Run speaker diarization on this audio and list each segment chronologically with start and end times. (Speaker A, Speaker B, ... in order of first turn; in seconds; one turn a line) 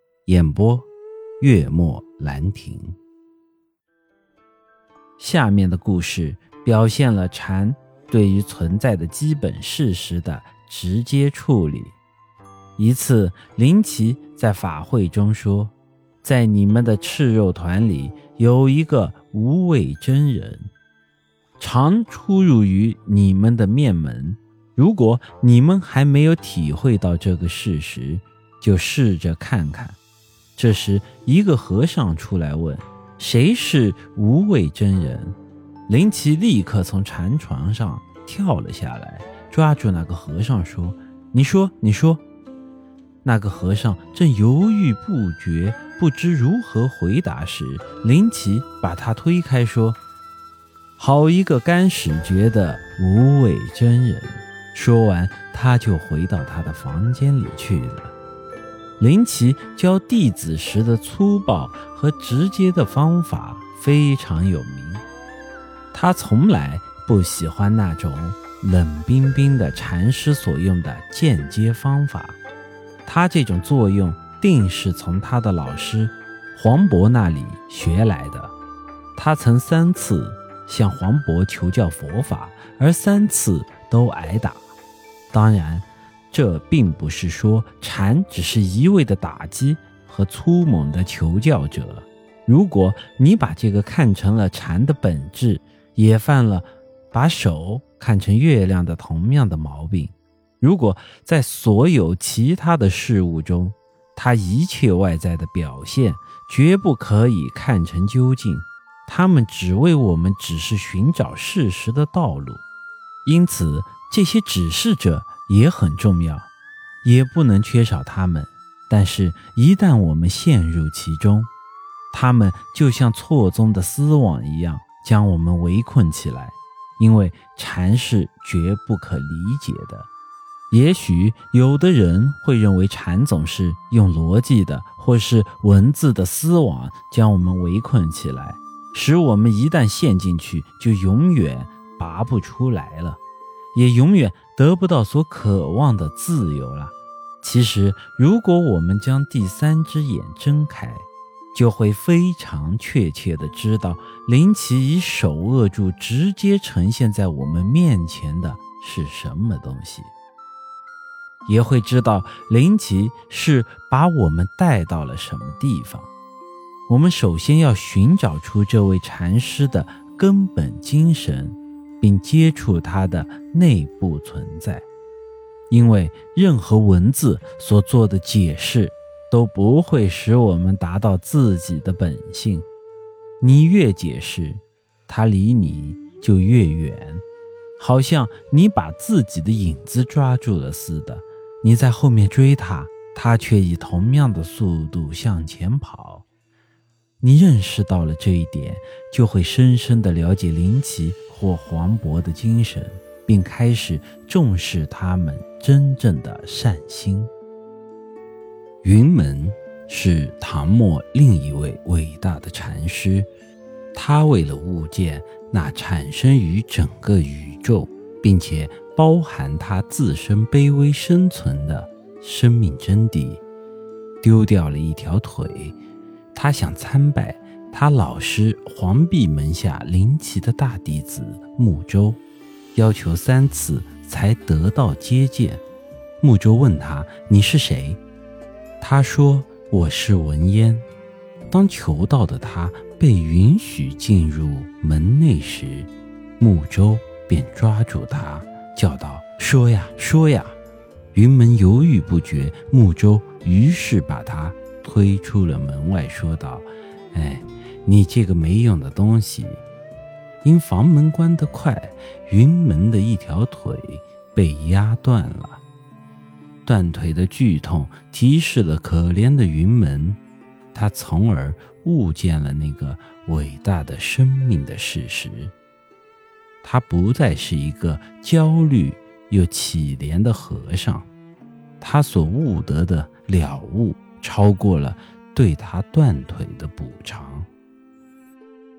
Speaker A: 0.3-0.9
Speaker A: 1.4-3.0
Speaker A: 5.2-12.0
Speaker A: 12.8-20.7
Speaker A: 21.6-30.0
Speaker A: 30.6-35.4
Speaker A: 35.9-42.2
Speaker A: 43.2-50.0
Speaker A: 51.0-58.1
Speaker A: 59.0-65.0
Speaker A: 65.9-72.4
Speaker A: 73.1-78.5
Speaker A: 79.2-84.7
Speaker A: 85.3-112.6
Speaker A: 113.2-116.5
Speaker A: 117.0-121.5
Speaker A: 122.1-130.1
Speaker A: 130.7-143.2
Speaker A: 143.7-160.1
Speaker A: 161.5-166.1
Speaker A: 166.9-174.9
Speaker A: 175.7-182.7
Speaker A: 183.4-187.2
Speaker A: 187.8-196.2
Speaker A: 197.2-207.3
Speaker A: 208.8-213.3
Speaker A: 213.9-223.4
Speaker A: 224.2-225.8
Speaker A: 226.3-232.2
Speaker A: 232.7-235.6
Speaker A: 236.2-238.0
Speaker A: 238.8-240.9
Speaker A: 241.5-250.6
Speaker A: 251.1-259.6
Speaker A: 260.4-265.6
Speaker A: 266.6-270.2
Speaker A: 270.7-275.5
Speaker A: 276.6-281.1
Speaker A: 281.8-287.5